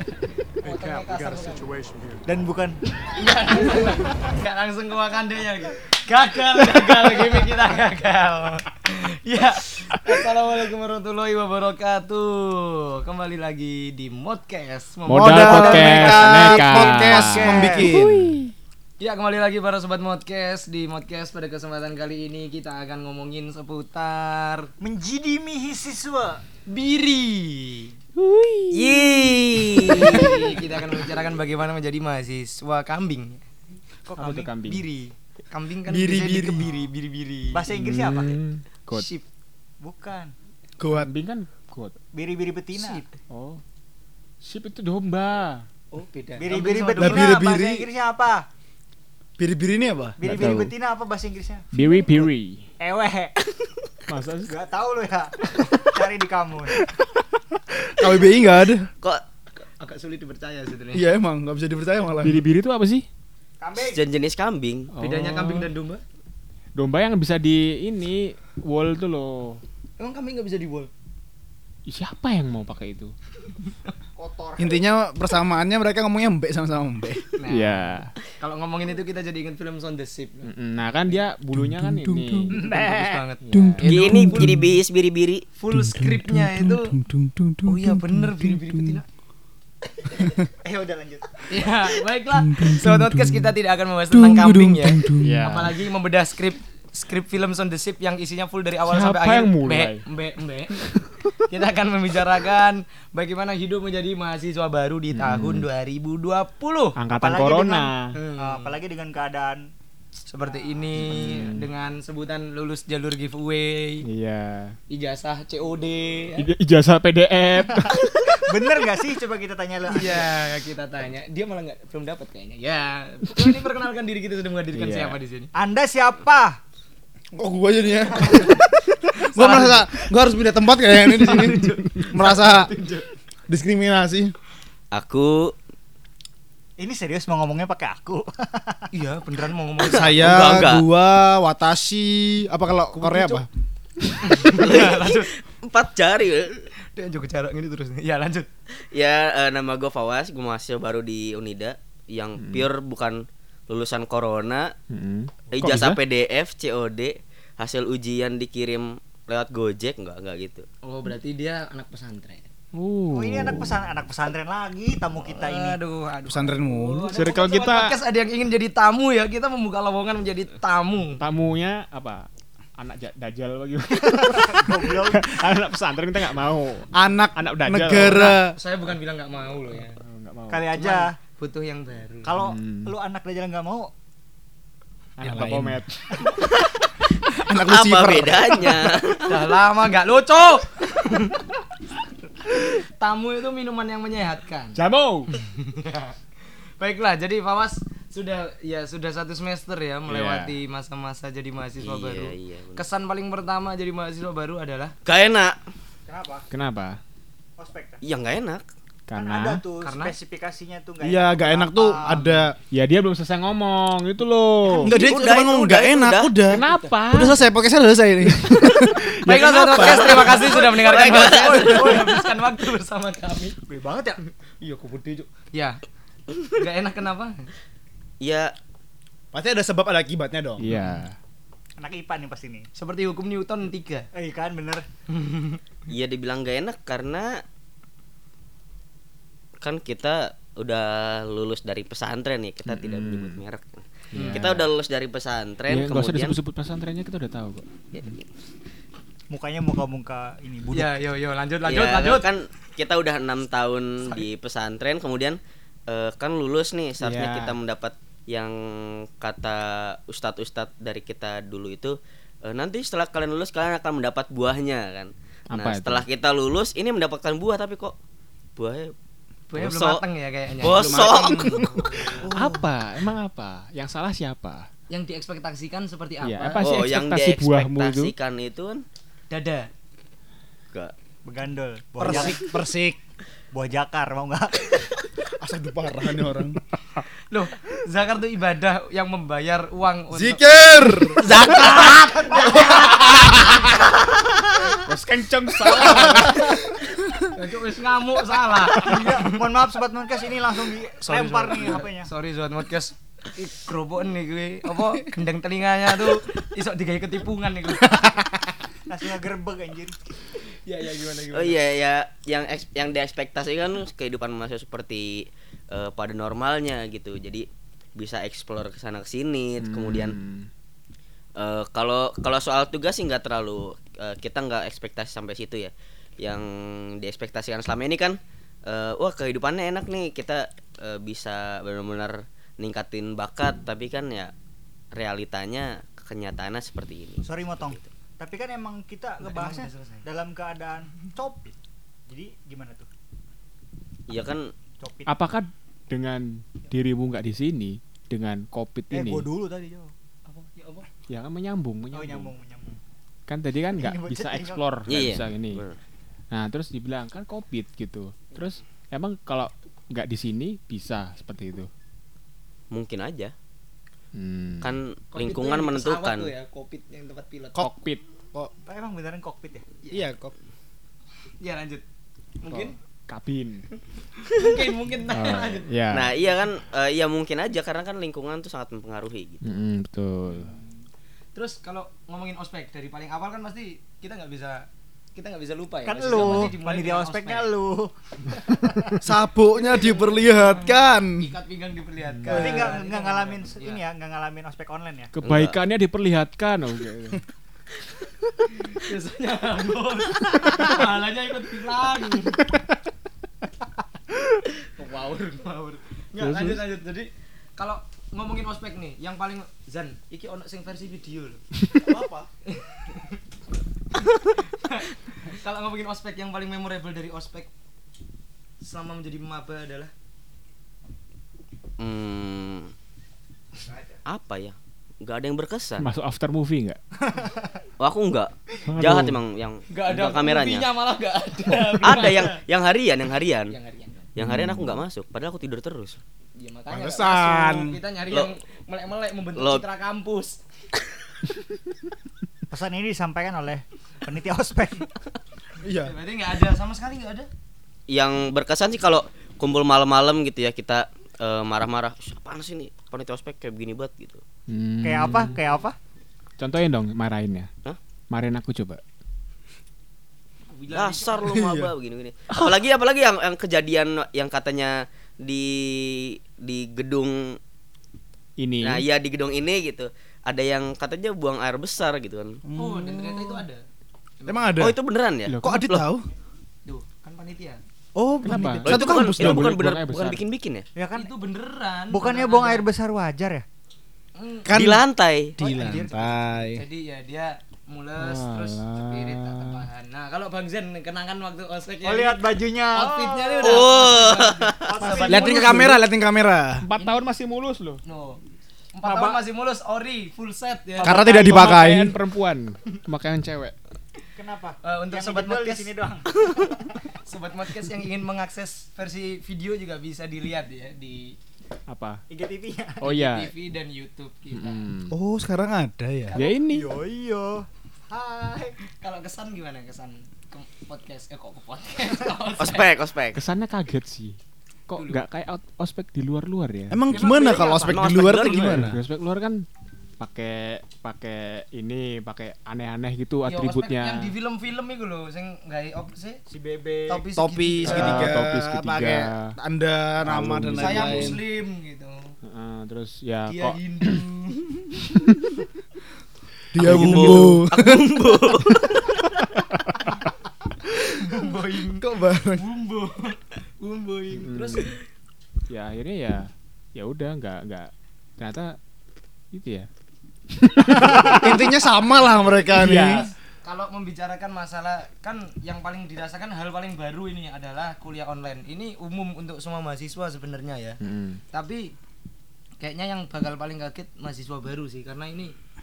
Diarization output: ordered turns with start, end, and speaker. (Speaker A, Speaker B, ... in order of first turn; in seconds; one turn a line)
Speaker A: 0.6-2.8
Speaker B: 0.6-1.7
Speaker B: 3.1-16.2
Speaker C: 15.1-18.5
Speaker D: 15.1-18.2
Speaker A: 15.4-17.9
Speaker B: 19.0-24.7
Speaker A: 24.8-26.4
Speaker B: 26.7-27.9
Speaker C: 28.1-29.0
Speaker E: 28.7-30.3
Speaker C: 29.8-30.5
Speaker B: 30.0-33.4
Speaker A: 34.1-34.5
Speaker C: 34.2-34.9
Speaker B: 34.7-37.6
Speaker D: 35.9-36.6
Speaker A: 37.5-38.3
Speaker C: 37.7-39.0
Speaker B: 38.9-39.2
Speaker A: 39.8-40.3
Speaker D: 40.8-41.1
Speaker C: 40.9-41.9
Speaker A: 42.1-43.0
Speaker B: 42.8-43.1
Speaker C: 43.3-43.6
Speaker C: 44.4-45.6
Speaker B: 45.9-47.4
Speaker A: 46.4-48.5
Speaker D: 47.0-47.9
Speaker D: 49.4-50.5
Speaker A: 50.2-52.3
Speaker C: 50.2-50.7
Speaker C: 51.7-52.6
Speaker A: 52.8-53.4
Speaker C: 54.1-54.5
Speaker A: 54.4-56.9
Speaker D: 57.7-58.9
Speaker B: 59.6-61.0
Speaker D: 60.9-62.4
Speaker C: 62.2-63.1
Speaker A: 63.6-64.0
Speaker E: 63.8-64.9
Speaker C: 65.0-65.7
Speaker B: 65.0-66.0
Speaker C: 66.8-69.6
Speaker B: 70.0-70.9
Speaker C: 71.9-73.1
Speaker A: 74.2-74.8
Speaker D: 74.6-77.2
Speaker B: 77.3-81.2
Speaker C: 77.5-78.1
Speaker C: 80.4-83.9
Speaker D: 81.5-82.6
Speaker A: 82.6-83.0
Speaker B: 82.6-84.5
Speaker D: 83.5-84.6
Speaker E: 83.8-85.4
Speaker B: 85.6-86.9
Speaker D: 85.7-89.0
Speaker B: 87.7-89.0
Speaker A: 90.6-91.5
Speaker B: 91.5-107.0
Speaker D: 92.3-93.5
Speaker D: 94.1-95.3
Speaker C: 95.2-95.7
Speaker C: 98.9-100.0
Speaker C: 105.1-105.7
Speaker C: 107.0-108.2
Speaker A: 107.1-109.7
Speaker B: 108.2-108.7
Speaker B: 110.3-114.0
Speaker C: 111.0-111.7
Speaker C: 114.0-114.7
Speaker B: 114.9-116.5
Speaker C: 116.4-118.0
Speaker A: 118.3-120.3
Speaker B: 119.9-125.5
Speaker C: 124.7-125.2
Speaker A: 125.5-126.6
Speaker D: 127.3-128.5
Speaker A: 128.2-128.6
Speaker B: 129.1-130.1
Speaker D: 129.3-132.7
Speaker B: 131.0-133.1
Speaker D: 133.5-134.3
Speaker E: 134.9-135.5
Speaker A: 136.8-138.9
Speaker B: 138.9-140.6
Speaker D: 139.9-143.5
Speaker E: 139.9-140.9
Speaker B: 142.9-143.4
Speaker B: 144.2-145.3
Speaker E: 144.5-146.6
Speaker B: 146.9-148.5
Speaker E: 148.9-154.7
Speaker C: 152.4-152.6
Speaker C: 154.9-156.0
Speaker E: 155.5-160.7
Speaker B: 160.8-162.5
Speaker C: 162.7-163.7
Speaker A: 163.1-165.8
Speaker B: 165.2-171.2
Speaker D: 166.3-167.1
Speaker C: 167.1-167.9
Speaker C: 171.2-172.3
Speaker C: 172.8-178.4
Speaker A: 174.0-175.3
Speaker D: 176.9-178.5
Speaker B: 178.0-179.9
Speaker C: 180.0-180.7
Speaker A: 180.5-181.1
Speaker B: 180.8-182.3
Speaker A: 182.2-183.9
Speaker C: 182.3-182.9
Speaker C: 185.2-185.9
Speaker D: 185.2-185.8
Speaker E: 186.5-186.8
Speaker D: 187.4-188.8
Speaker E: 187.5-189.4
Speaker B: 189.3-191.4
Speaker B: 192.5-194.8
Speaker C: 194.8-195.3
Speaker B: 195.3-196.2
Speaker B: 196.8-204.9
Speaker C: 200.1-200.5
Speaker E: 201.8-202.8
Speaker E: 205.0-205.6
Speaker A: 206.1-206.5
Speaker C: 206.5-207.0
Speaker A: 207.6-208.0
Speaker E: 208.0-208.6
Speaker C: 209.1-209.6
Speaker A: 209.1-212.3
Speaker B: 209.8-210.1
Speaker D: 211.0-212.6
Speaker B: 212.1-212.4
Speaker C: 212.7-214.9
Speaker D: 214.7-220.5
Speaker E: 214.9-216.3
Speaker C: 216.4-217.4
Speaker C: 218.7-220.2
Speaker B: 219.3-223.6
Speaker A: 220.3-222.1
Speaker E: 220.4-221.9
Speaker A: 223.7-224.2
Speaker B: 224.6-225.8
Speaker B: 226.5-227.5
Speaker E: 228.2-228.5
Speaker D: 229.3-230.7
Speaker C: 230.6-231.2
Speaker A: 231.8-232.7
Speaker B: 232.7-234.1
Speaker A: 234.1-234.8
Speaker B: 235.1-235.6
Speaker E: 235.9-237.4
Speaker E: 239.6-246.4
Speaker C: 242.7-243.4
Speaker C: 244.1-244.7
Speaker C: 245.7-247.7
Speaker E: 247.9-248.2
Speaker A: 249.3-251.0
Speaker B: 250.7-252.3
Speaker E: 251.6-267.9
Speaker C: 257.0-257.5
Speaker C: 265.5-266.0
Speaker E: 268.6-268.9
Speaker B: 269.5-272.2
Speaker E: 269.5-270.0
Speaker E: 270.6-271.6
Speaker D: 270.7-272.5
Speaker C: 272.3-274.7
Speaker B: 274.9-276.6
Speaker C: 276.2-278.1
Speaker E: 276.6-278.8
Speaker B: 279.3-279.7
Speaker A: 281.2-282.5
Speaker B: 282.0-282.4
Speaker D: 282.0-283.0
Speaker A: 283.5-284.8
Speaker D: 285.4-286.6
Speaker B: 287.0-293.7
Speaker D: 290.1-291.5
Speaker E: 291.3-291.9
Speaker A: 291.4-293.1
Speaker C: 294.8-296.6
Speaker B: 295.9-296.2
Speaker B: 297.3-299.3
Speaker A: 298.8-302.1
Speaker B: 301.0-308.2
Speaker A: 308.9-310.0
Speaker B: 310.5-311.6
Speaker E: 311.3-320.1
Speaker C: 319.6-320.5
Speaker E: 321.4-334.3
Speaker E: 334.9-337.9
Speaker A: 337.2-341.5
Speaker B: 339.2-340.0
Speaker A: 342.1-342.9
Speaker E: 344.1-344.4
Speaker A: 344.8-345.1
Speaker C: 345.1-349.3
Speaker A: 348.9-349.9
Speaker B: 350.2-350.9
Speaker C: 351.1-352.3
Speaker A: 351.9-352.8
Speaker C: 353.3-355.6
Speaker A: 353.8-354.6
Speaker E: 354.9-355.8
Speaker C: 356.3-361.7
Speaker E: 362.7-363.3
Speaker C: 364.1-364.7
Speaker E: 364.6-366.3
Speaker B: 365.1-367.6
Speaker C: 367.6-368.0
Speaker A: 368.6-369.6
Speaker D: 369.9-370.3
Speaker B: 371.4-371.8
Speaker B: 372.4-372.8
Speaker C: 372.5-373.6
Speaker B: 374.2-375.7
Speaker C: 375.1-376.1
Speaker E: 375.9-379.4
Speaker C: 379.4-380.5
Speaker B: 380.3-380.6
Speaker B: 381.3-387.5
Speaker A: 385.8-389.0
Speaker D: 389.0-391.3
Speaker B: 389.6-393.8
Speaker C: 392.2-392.7
Speaker A: 392.3-395.1
Speaker C: 395.1-397.2
Speaker E: 395.2-395.6
Speaker B: 398.7-402.4
Speaker B: 404.7-411.4
Speaker C: 406.2-406.6
Speaker D: 411.9-412.3
Speaker B: 412.5-413.2
Speaker B: 414.5-417.5
Speaker B: 418.6-419.9
Speaker E: 421.8-422.7
Speaker E: 424.1-425.9
Speaker C: 425.8-426.8
Speaker E: 427.8-430.7
Speaker C: 428.7-429.2
Speaker B: 429.7-432.4
Speaker E: 431.8-433.5
Speaker B: 433.5-434.1
Speaker E: 434.1-436.0
Speaker C: 434.2-434.8
Speaker B: 436.4-440.4
Speaker D: 436.7-437.8
Speaker E: 439.4-439.6
Speaker A: 442.5-444.9
Speaker D: 445.6-445.9
Speaker B: 445.8-447.3
Speaker E: 447.9-454.2
Speaker C: 454.5-455.4
Speaker A: 454.8-455.8
Speaker C: 456.4-457.5
Speaker C: 458.1-458.8
Speaker B: 460.5-461.3
Speaker E: 460.7-467.4
Speaker D: 461.3-461.7
Speaker C: 468.4-468.9
Speaker E: 468.6-472.4
Speaker D: 472.4-473.4
Speaker B: 472.6-473.6
Speaker B: 474.2-474.6
Speaker D: 474.2-474.8
Speaker E: 474.6-475.9
Speaker C: 475.3-475.6
Speaker D: 475.4-476.1
Speaker B: 476.6-477.6
Speaker D: 477.9-479.5
Speaker C: 478.2-480.2
Speaker E: 478.6-480.7
Speaker A: 480.7-481.1
Speaker B: 480.9-482.7
Speaker A: 481.9-483.4
Speaker B: 484.1-484.5
Speaker D: 484.4-484.8
Speaker E: 484.5-485.4
Speaker D: 485.4-486.6
Speaker A: 485.4-486.2
Speaker B: 486.5-495.8
Speaker C: 488.0-489.6
Speaker A: 491.8-493.9
Speaker E: 493.4-494.8
Speaker A: 494.6-495.7
Speaker D: 495.0-496.7
Speaker C: 496.6-497.8
Speaker B: 497.8-498.2
Speaker B: 498.7-501.3
Speaker A: 498.8-499.2
Speaker C: 500.8-503.5
Speaker D: 500.8-501.9
Speaker A: 504.1-506.7
Speaker B: 504.6-505.8
Speaker B: 507.0-511.1
Speaker C: 511.7-512.0
Speaker A: 512.1-512.8
Speaker C: 512.8-513.3
Speaker B: 512.8-514.6
Speaker C: 514.3-514.9
Speaker D: 514.9-516.1
Speaker B: 516.1-516.4
Speaker C: 516.1-516.7
Speaker A: 516.5-518.5
Speaker B: 518.8-522.7
Speaker E: 522.4-523.2
Speaker C: 523.1-524.1
Speaker C: 524.7-526.8
Speaker B: 524.7-525.0
Speaker D: 526.7-528.8
Speaker B: 526.9-527.8
Speaker E: 527.0-528.6
Speaker C: 528.4-529.5
Speaker C: 530.0-534.1
Speaker B: 533.2-536.2
Speaker A: 536.3-537.0
Speaker B: 536.9-538.2
Speaker D: 537.1-541.2
Speaker C: 537.6-539.3
Speaker C: 540.0-541.2
Speaker B: 540.5-542.0
Speaker C: 542.2-544.0
Speaker B: 543.3-544.5
Speaker D: 546.5-548.6
Speaker E: 546.6-548.6
Speaker C: 546.6-547.1
Speaker B: 551.0-551.8
Speaker D: 551.7-552.5
Speaker B: 552.4-554.8
Speaker C: 554.2-554.7
Speaker C: 555.5-558.5
Speaker C: 559.3-559.7
Speaker C: 560.3-561.5
Speaker D: 560.8-563.1
Speaker C: 562.6-563.1
Speaker B: 563.4-570.8
Speaker C: 570.8-571.2
Speaker B: 571.3-571.7
Speaker B: 572.6-575.3